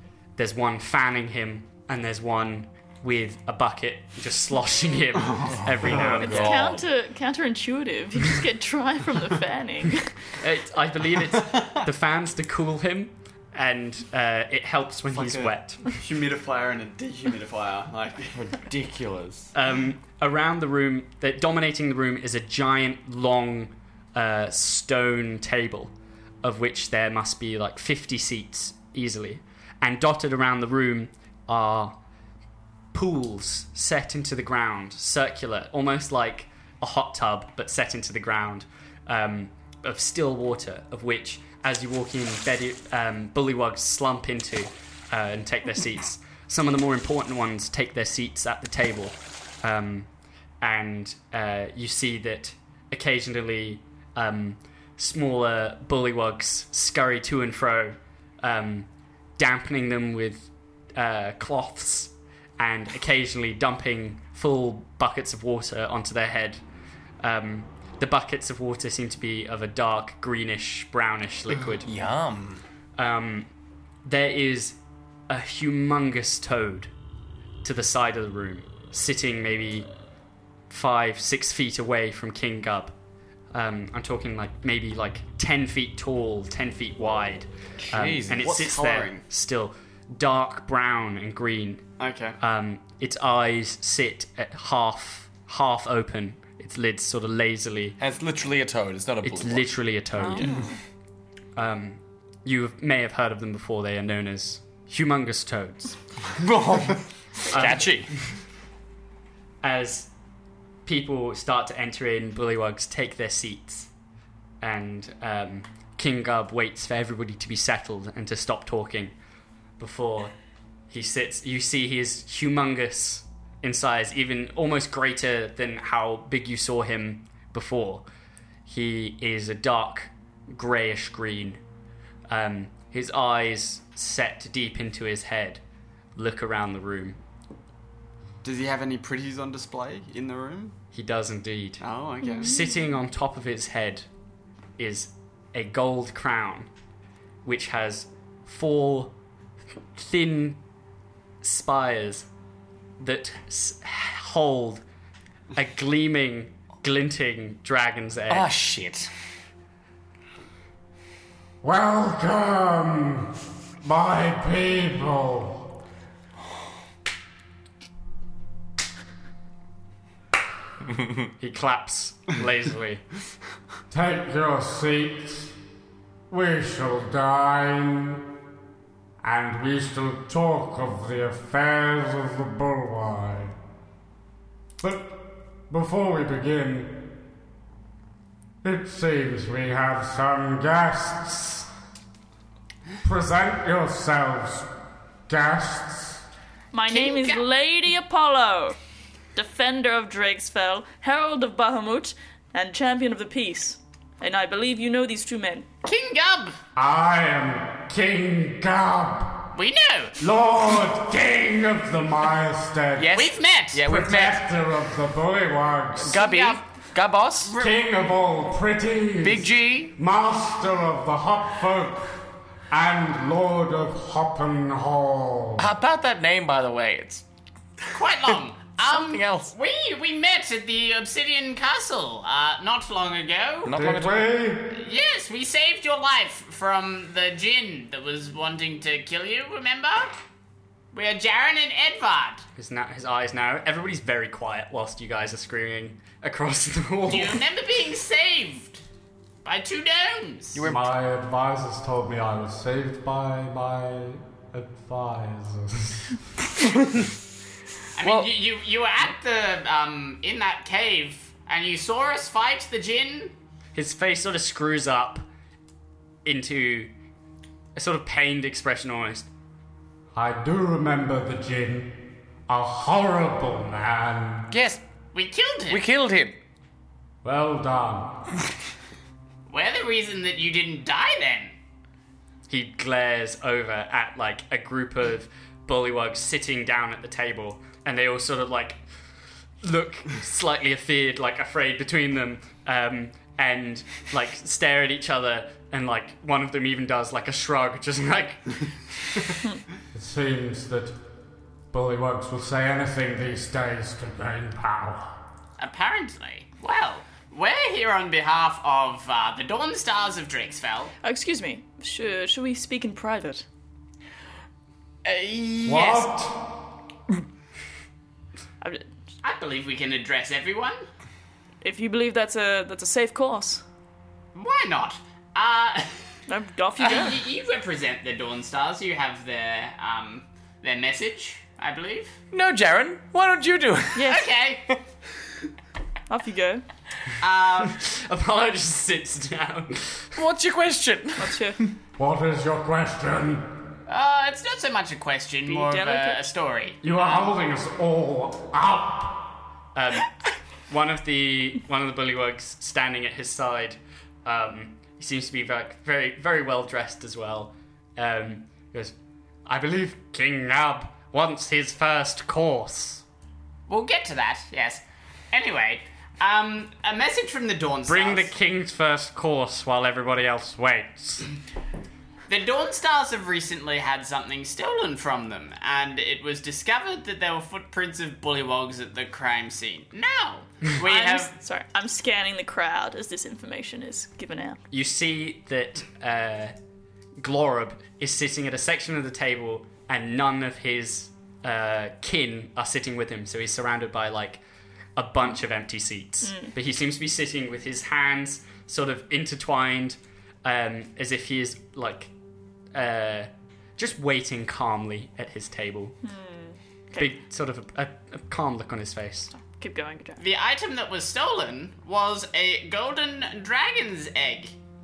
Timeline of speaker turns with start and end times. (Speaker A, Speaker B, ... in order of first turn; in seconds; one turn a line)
Speaker A: 0.4-6.7
Speaker B: 5.8-6.8
Speaker C: 5.8-6.3
Speaker D: 6.1-10.3
Speaker A: 10.4-15.9
Speaker C: 11.5-11.8
Speaker C: 15.1-18.4
Speaker B: 18.4-19.5
Speaker A: 19.5-32.0
Speaker A: 32.9-50.1
Speaker A: 50.6-66.6
Speaker A: 67.2-71.9
Speaker B: 71.8-72.6
Speaker A: 73.0-73.5
Speaker A: 74.0-74.8
Speaker A: 75.3-76.9
Speaker A: 77.6-79.9
Speaker A: 80.7-83.0
Speaker A: 83.5-91.8
Speaker B: 87.9-88.5
Speaker C: 88.3-89.2
Speaker C: 92.0-92.4
Speaker A: 92.4-98.0
Speaker B: 98.0-99.8
Speaker A: 99.2-100.5
Speaker C: 100.3-100.6
Speaker A: 101.5-106.0
Speaker B: 106.4-108.2
Speaker A: 107.5-107.9
Speaker A: 109.6-110.1
Speaker A: 110.8-113.9
Speaker A: 114.6-119.1
Speaker A: 119.8-120.3
Speaker A: 120.9-128.1
Speaker A: 128.7-131.6
Speaker A: 132.3-135.6
Speaker A: 136.2-137.2
Speaker C: 138.4-140.7
Speaker A: 140.9-141.8
Speaker C: 141.8-142.5
Speaker D: 142.2-142.5
Speaker A: 142.3-144.1
Speaker A: 144.8-146.7
Speaker A: 147.4-149.1
Speaker A: 149.9-150.6
Speaker A: 151.4-152.3
Speaker A: 153.0-154.8
Speaker A: 155.5-158.5
Speaker B: 158.3-159.1
Speaker E: 161.6-165.7
Speaker A: 171.4-173.0
Speaker E: 173.9-175.5
Speaker E: 176.3-178.3
Speaker E: 179.2-183.6
Speaker E: 184.8-187.2
Speaker E: 188.6-191.7
Speaker E: 193.0-194.7
Speaker E: 195.3-196.2
Speaker D: 196.7-198.8
Speaker F: 196.9-197.4
Speaker D: 199.3-205.7
Speaker F: 205.8-206.6
Speaker E: 206.7-209.5
Speaker F: 209.5-210.2
Speaker E: 210.2-213.1
Speaker B: 213.0-214.4
Speaker F: 213.1-213.9
Speaker E: 213.8-216.3
Speaker B: 216.0-217.5
Speaker F: 216.1-216.6
Speaker F: 217.4-217.8
Speaker E: 217.6-225.7
Speaker B: 219.2-219.9
Speaker B: 225.6-227.2
Speaker F: 227.9-233.8
Speaker B: 228.8-229.5
Speaker B: 233.6-234.3
Speaker E: 233.7-234.8
Speaker F: 234.7-240.2
Speaker F: 240.9-242.4
Speaker A: 242.6-247.4
Speaker F: 247.1-248.8
Speaker F: 249.4-250.7
Speaker B: 250.5-250.9
Speaker E: 250.6-256.1
Speaker F: 258.0-263.3
Speaker B: 258.0-258.3
Speaker A: 263.7-265.3
Speaker A: 266.2-266.9
Speaker A: 267.8-269.3
Speaker E: 270.1-274.5
Speaker B: 274.5-274.8
Speaker F: 275.1-275.9
Speaker B: 275.7-276.4
Speaker E: 277.2-278.2
Speaker F: 279.5-281.5
Speaker A: 282.5-288.8
Speaker A: 289.6-298.7
Speaker E: 299.9-301.0
Speaker E: 301.7-305.1
Speaker F: 305.6-310.9
Speaker D: 311.0-313.4
Speaker F: 315.0-316.1
Speaker E: 315.6-316.5
Speaker D: 318.6-318.9
Speaker F: 319.2-320.8
Speaker D: 321.6-323.6
Speaker F: 324.3-326.1
Speaker D: 326.3-327.3
Speaker F: 326.8-332.2
Speaker B: 332.3-334.1
Speaker D: 333.9-334.3
Speaker F: 334.1-334.7
Speaker D: 336.1-336.6
Speaker F: 337.2-337.8
Speaker A: 337.7-340.2
Speaker B: 340.2-341.4
Speaker D: 341.2-341.6
Speaker E: 342.0-343.7
Speaker F: 343.9-347.4
Speaker D: 345.4-346.3
Speaker E: 346.8-349.3
Speaker A: 349.7-350.1
Speaker A: 350.7-358.9
Speaker E: 359.5-360.9
Speaker A: 360.6-363.0
Speaker F: 363.7-368.3
Speaker A: 367.9-371.2
Speaker F: 372.3-381.3
Speaker D: 380.8-384.6
Speaker A: 384.7-386.5
Speaker A: 387.2-394.4
Speaker A: 394.9-402.1
Speaker D: 396.2-396.5
Speaker A: 402.7-405.9
Speaker D: 406.0-407.1
Speaker A: 407.0-409.3
Speaker D: 409.4-410.2
Speaker F: 410.2-414.5